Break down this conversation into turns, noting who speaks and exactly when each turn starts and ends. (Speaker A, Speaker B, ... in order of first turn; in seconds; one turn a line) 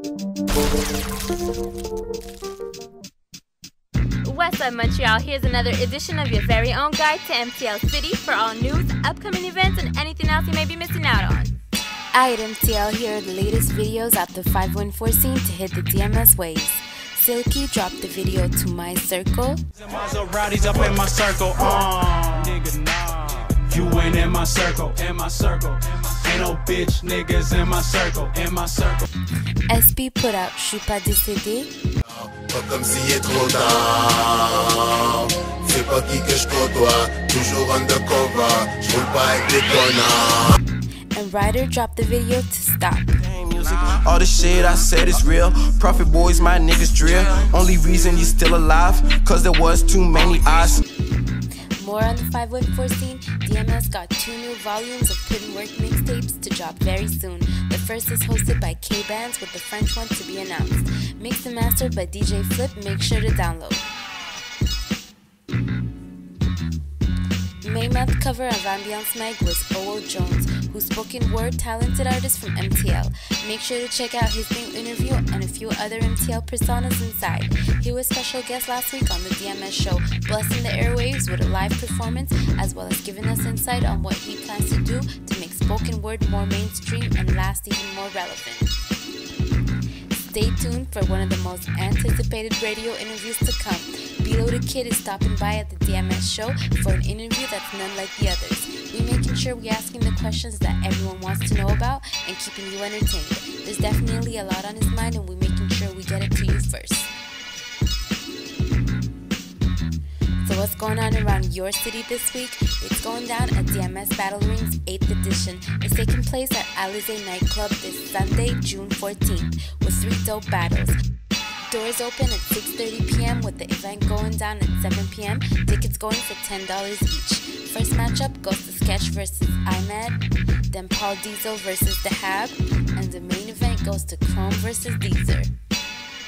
Speaker A: 4.2-11.5
Speaker B: 12.1-19.6
Speaker C: 19.8-29.0
Speaker B: 29.7-31.7
Speaker D: 32.0-40.5
Speaker B: 41.1-43.1
Speaker E: 43.2-50.8
Speaker B: 51.8-63.9
Speaker B: 67.6-88.7
Speaker B: 90.1-107.1
Speaker B: 110.4-121.0
Speaker B: 121.7-135.5